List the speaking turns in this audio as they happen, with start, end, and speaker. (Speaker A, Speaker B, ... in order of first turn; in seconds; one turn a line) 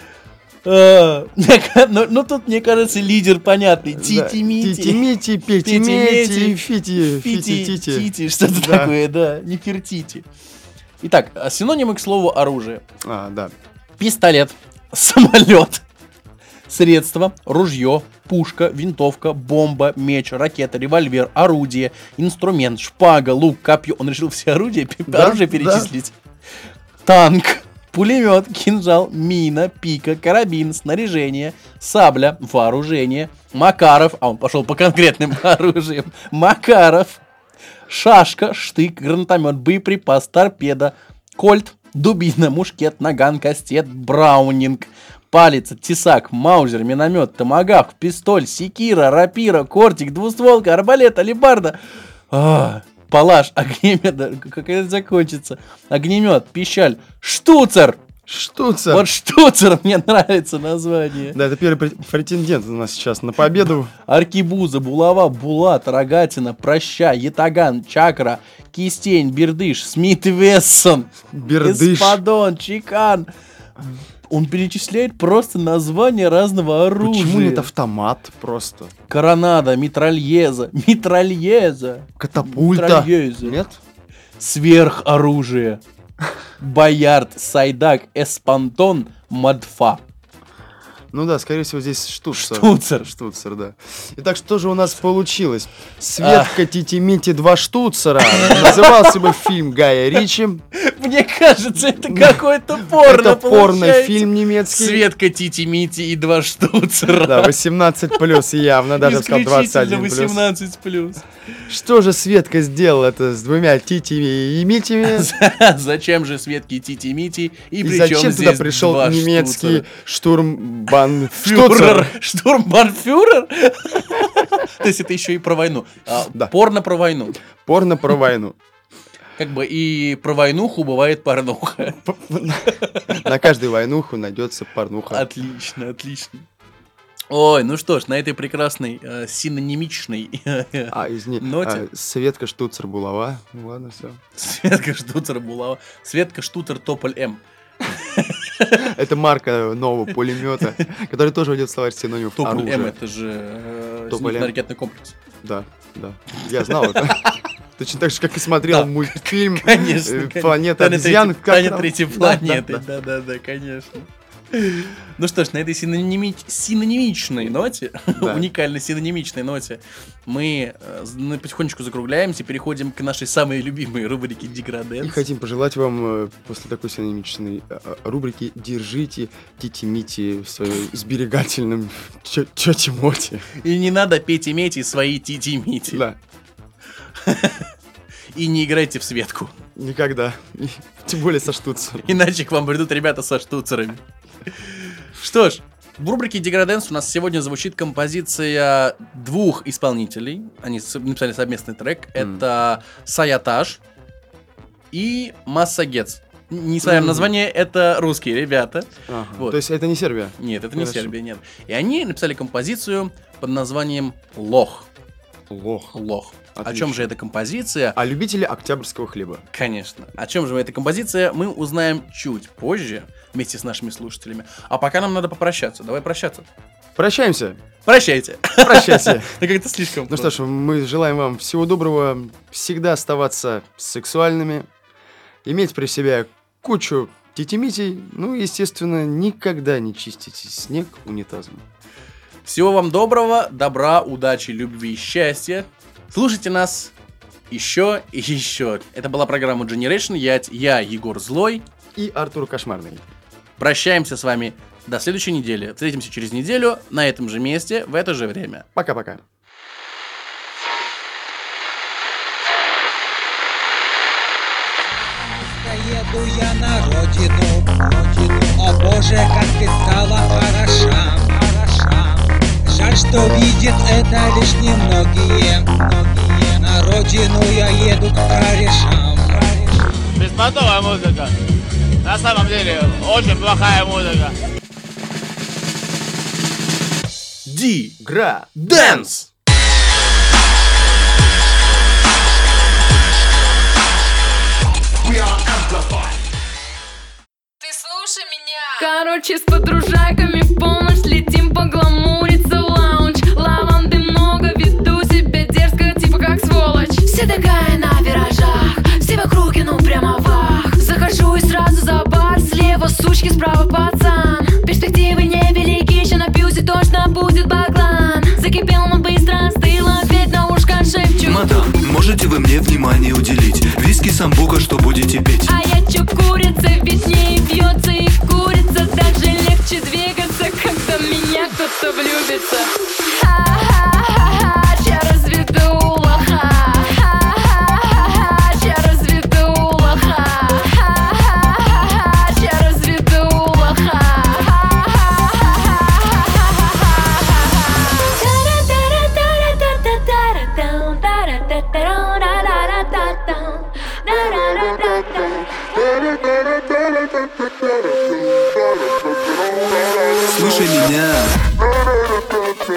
Speaker A: 0.7-5.1
Speaker B: 3.9-8.9
Speaker A: 5.6-10.3
Speaker A: 11.0-12.8
Speaker B: 13.0-13.5
Speaker A: 14.0-15.8
Speaker A: 16.7-26.1
Speaker B: 25.1-25.9
Speaker A: 27.1-37.2
Speaker A: 37.9-51.8
Speaker A: 52.3-58.0
Speaker B: 58.3-59.1
Speaker A: 58.9-61.4
Speaker B: 61.3-63.9
Speaker A: 64.1-71.1
Speaker B: 71.3-72.2
Speaker A: 71.6-73.3
Speaker A: 74.3-77.7
Speaker B: 77.0-78.9
Speaker A: 79.1-83.6
Speaker B: 82.2-83.8
Speaker A: 84.4-85.8
Speaker A: 86.6-90.0
Speaker B: 91.1-100.6
Speaker A: 92.3-93.1
Speaker A: 96.2-96.6
Speaker A: 98.3-99.4
Speaker A: 100.8-107.5
Speaker B: 102.1-105.0
Speaker B: 107.2-110.4
Speaker A: 109.0-111.2
Speaker B: 111.7-115.3
Speaker A: 115.1-119.9
Speaker B: 117.8-122.1
Speaker A: 121.3-127.4
Speaker B: 127.5-128.6
Speaker A: 129.4-132.0
Speaker B: 132.1-135.3
Speaker A: 132.7-133.2
Speaker A: 135.1-136.5
Speaker A: 137.3-141.9
Speaker B: 140.9-144.2
Speaker A: 144.4-148.9
Speaker B: 148.8-153.0
Speaker A: 152.4-155.2
Speaker B: 154.1-154.5
Speaker B: 155.4-162.8
Speaker A: 156.6-157.3
Speaker A: 158.6-175.2
Speaker B: 168.2-168.5
Speaker B: 175.0-183.5
Speaker A: 183.6-186.0
Speaker B: 185.9-186.2
Speaker A: 187.2-187.7
Speaker A: 188.3-189.5
Speaker B: 189.8-192.2
Speaker A: 192.0-203.8
Speaker B: 202.2-202.4
Speaker A: 204.9-209.6
Speaker B: 206.8-207.3
Speaker B: 209.1-211.1
Speaker A: 210.4-214.9
Speaker B: 215.5-215.9
Speaker A: 215.9-218.0
Speaker B: 216.6-217.1
Speaker B: 217.9-219.4
Speaker A: 219.5-226.5
Speaker B: 227.0-227.6
Speaker A: 227.9-230.3
Speaker B: 228.6-229.4
Speaker B: 230.1-234.7
Speaker B: 235.4-241.7
Speaker A: 242.4-246.9
Speaker A: 247.5-251.6
Speaker B: 251.9-253.0
Speaker A: 253.6-258.7
Speaker B: 258.8-259.2
Speaker C: 265.1-280.0
Speaker D: 280.2-281.3
Speaker D: 282.0-284.3
Speaker A: 287.5-288.0
Speaker B: 288.0-289.1
Speaker A: 288.6-289.3
Speaker E: 297.6-321.5
Speaker F: 321.2-325.5
Speaker E: 325.5-355.9
Speaker F: 360.3-361.4